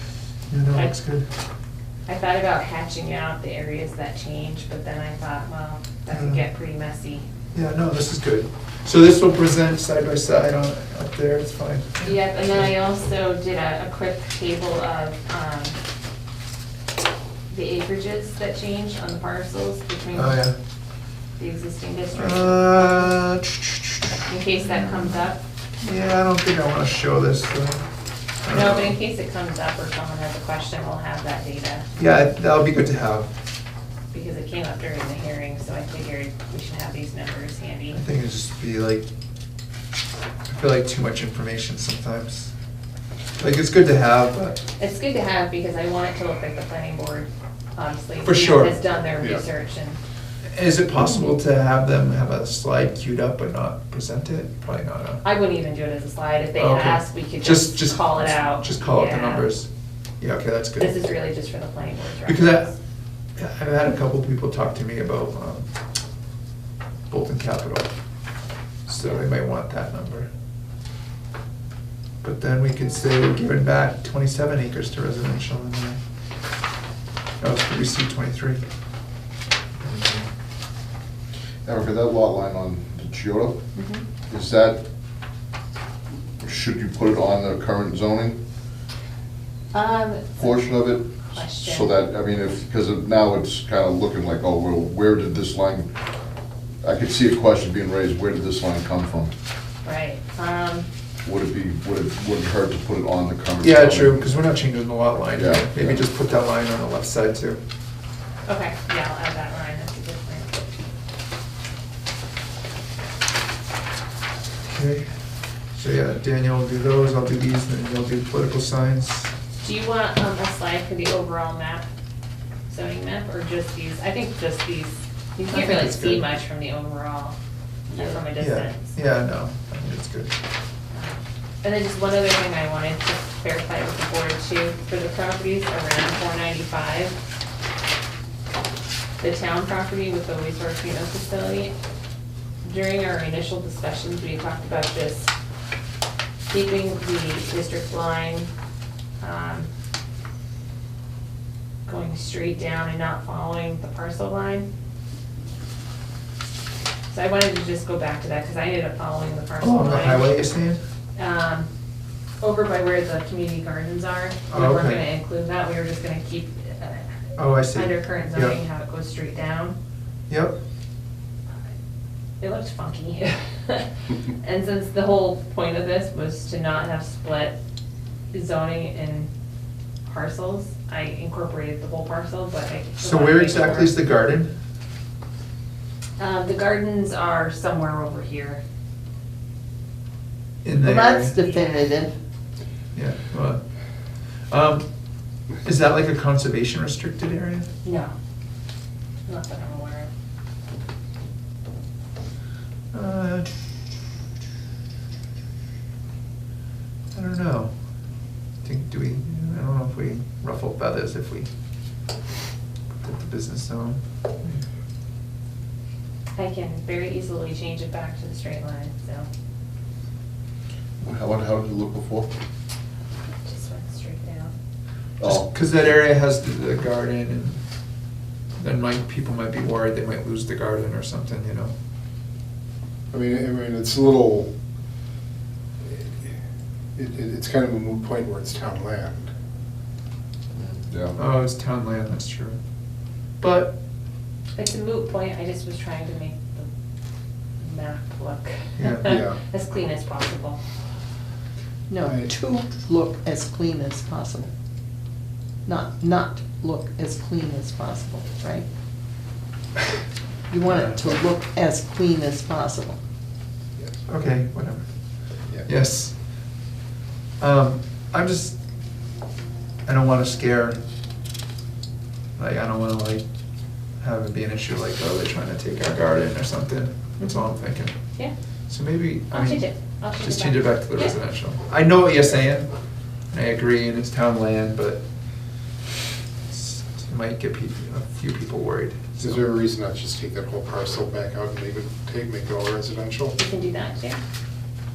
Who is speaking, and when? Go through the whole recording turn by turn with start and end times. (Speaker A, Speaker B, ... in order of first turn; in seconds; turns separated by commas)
Speaker A: 0.5-1.3, Speaker B: 2.1-7.2, Speaker A: 6.1-6.5, Speaker A: 7.5-12.7, Speaker B: 12.0-15.8, Speaker B: 17.5-20.4, Speaker A: 20.1-20.6, Speaker B: 21.4-23.2, Speaker A: 22.1-24.3, Speaker B: 24.3-25.4, Speaker A: 25.8-27.9, Speaker A: 28.4-29.0, Speaker B: 28.5-31.9, Speaker A: 32.0-33.3, Speaker B: 34.1-38.0, Speaker A: 37.9-39.0, Speaker A: 40.5-42.5, Speaker A: 43.4-44.6, Speaker B: 44.8-50.0, Speaker A: 48.2-48.8, Speaker A: 50.5-55.2, Speaker B: 55.2-59.5, Speaker A: 56.6-59.7, Speaker A: 60.2-61.0, Speaker B: 60.8-62.8, Speaker A: 62.3-62.7, Speaker A: 63.4-65.7, Speaker A: 67.1-67.9, Speaker A: 68.9-70.3, Speaker B: 69.0-69.3, Speaker A: 72.2-76.0, Speaker A: 77.4-78.6, Speaker A: 79.8-80.3, Speaker C: 81.7-83.6, Speaker B: 83.8-84.0, Speaker C: 84.3-84.8, Speaker C: 86.4-88.4, Speaker B: 89.7-90.6, Speaker C: 90.4-95.9, Speaker B: 91.3-92.1, Speaker C: 96.8-99.3, Speaker B: 99.8-100.9, Speaker C: 101.2-104.4, Speaker A: 103.6-107.6, Speaker C: 105.4-106.0, Speaker B: 108.5-110.6, Speaker A: 114.7-115.1, Speaker A: 115.8-119.3, Speaker B: 119.6-121.9, Speaker B: 122.7-127.4, Speaker A: 125.5-126.2, Speaker C: 127.9-128.2, Speaker B: 128.0-129.0, Speaker A: 128.3-130.3, Speaker B: 130.9-137.2, Speaker B: 139.2-141.7, Speaker B: 142.6-145.3, Speaker B: 146.5-148.5, Speaker B: 149.2-149.7, Speaker B: 151.9-154.7, Speaker B: 157.1-160.5, Speaker A: 159.6-160.8, Speaker B: 161.2-161.7, Speaker B: 162.4-169.8, Speaker A: 164.5-165.1, Speaker A: 167.4-168.6, Speaker A: 170.3-170.6, Speaker B: 172.4-177.6, Speaker B: 178.3-179.3, Speaker B: 180.1-183.9, Speaker A: 183.0-184.5, Speaker B: 186.2-188.6, Speaker A: 190.6-191.4, Speaker D: 190.8-192.1, Speaker B: 191.3-191.9, Speaker A: 192.9-193.6, Speaker A: 194.5-194.8, Speaker A: 195.6-197.7, Speaker B: 197.8-198.1, Speaker B: 199.3-200.1, Speaker A: 202.9-203.5, Speaker A: 207.1-207.7, Speaker A: 208.6-211.5, Speaker A: 213.0-214.6, Speaker B: 216.4-219.3, Speaker C: 221.0-222.3, Speaker B: 223.4-224.5, Speaker C: 225.2-225.5, Speaker A: 225.2-227.6, Speaker A: 228.6-231.7, Speaker E: 233.1-234.5, Speaker E: 235.8-236.2, Speaker E: 237.0-239.3, Speaker C: 240.5-241.2, Speaker A: 241.2-242.6, Speaker A: 243.4-243.8, Speaker B: 244.6-246.7, Speaker B: 247.6-250.6, Speaker A: 248.8-249.2, Speaker E: 249.1-249.4, Speaker D: 251.9-254.5, Speaker E: 252.0-252.3, Speaker D: 255.7-258.7, Speaker D: 260.5-263.0, Speaker A: 260.6-261.2, Speaker A: 264.1-264.9, Speaker A: 265.6-266.1, Speaker A: 267.4-268.6, Speaker A: 269.9-270.8, Speaker A: 272.4-273.2, Speaker A: 274.0-277.9, Speaker A: 278.7-279.7, Speaker B: 279.3-281.2, Speaker A: 280.2-282.7, Speaker A: 283.3-285.0, Speaker A: 286.5-289.4, Speaker E: 289.2-293.4, Speaker B: 293.4-294.2